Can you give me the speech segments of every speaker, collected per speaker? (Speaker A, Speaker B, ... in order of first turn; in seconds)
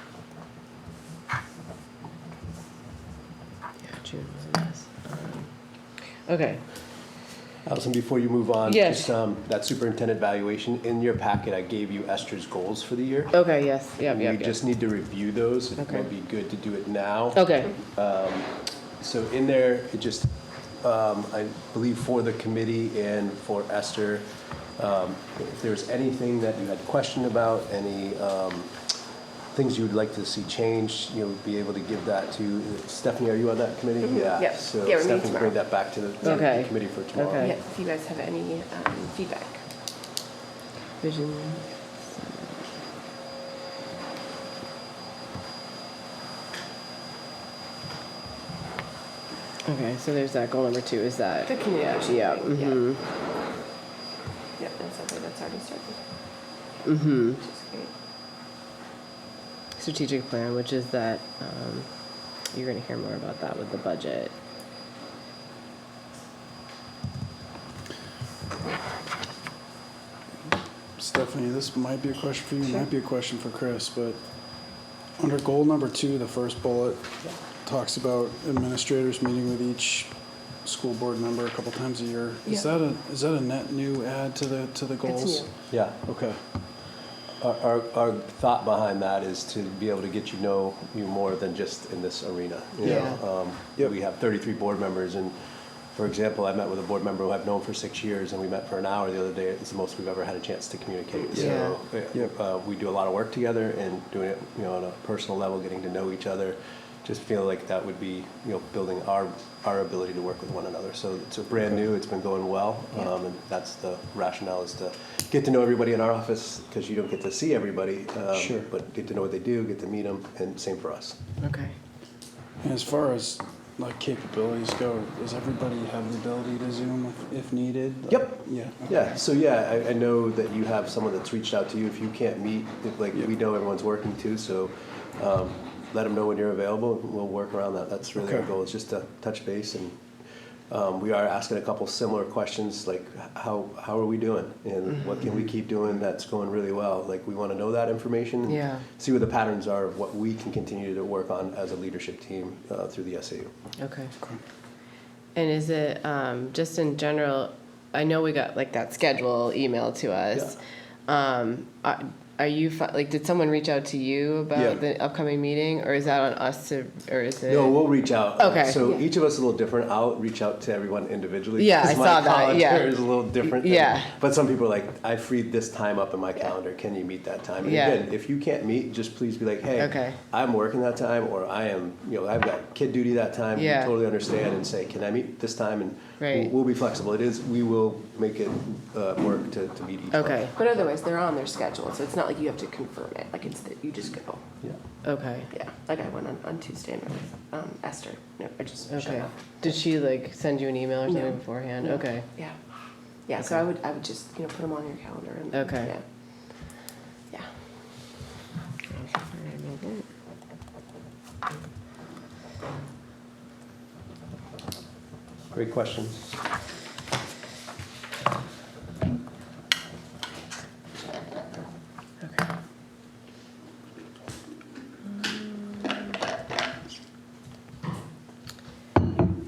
Speaker A: 3.8-5.5, 6.3-6.6, 8.7-9.1, 13.3-14.6, 15.8-16.1, 17.3-17.7, 36.2-37.6, 41.0-42.7, 49.6-53.0, 56.8-57.4, 59.8-61.9, 62.5-64.3, 92.8-93.2, 101.3-101.8, 121.4-121.7, 148.5-148.8, 153.8-154.1, 155.3-160.5, 161.1-167.8, 168.4-168.9, 171.6-174.1, 177.6-178.0, 179.8-180.2, 183.5-183.9, 186.2-186.5, 190.1-190.5, 195.0-195.5, 198.9-202.3, 203.4-203.7, 205.5-205.9, 208.9-210.1, 225.1-225.9
Speaker B: 7.7-13.4, 14.1-28.8, 29.5-37.5, 85.7-86.0, 87.4-95.3, 95.9-121.2, 128.1-140.0, 140.7-153.5, 167.5-190.5, 215.5-216.4
Speaker C: 34.1-35.6, 36.2-36.5, 37.4-39.6, 51.5-52.8, 54.6-56.0, 57.4-57.9, 85.0-85.5, 190.6-194.4, 195.5-199.4, 201.8-202.5, 203.3-206.0
Speaker D: 71.0-74.2, 75.2-86.4, 92.8-93.9, 101.3-102.3, 118.3-118.7, 122.6-128.9, 138.2-138.5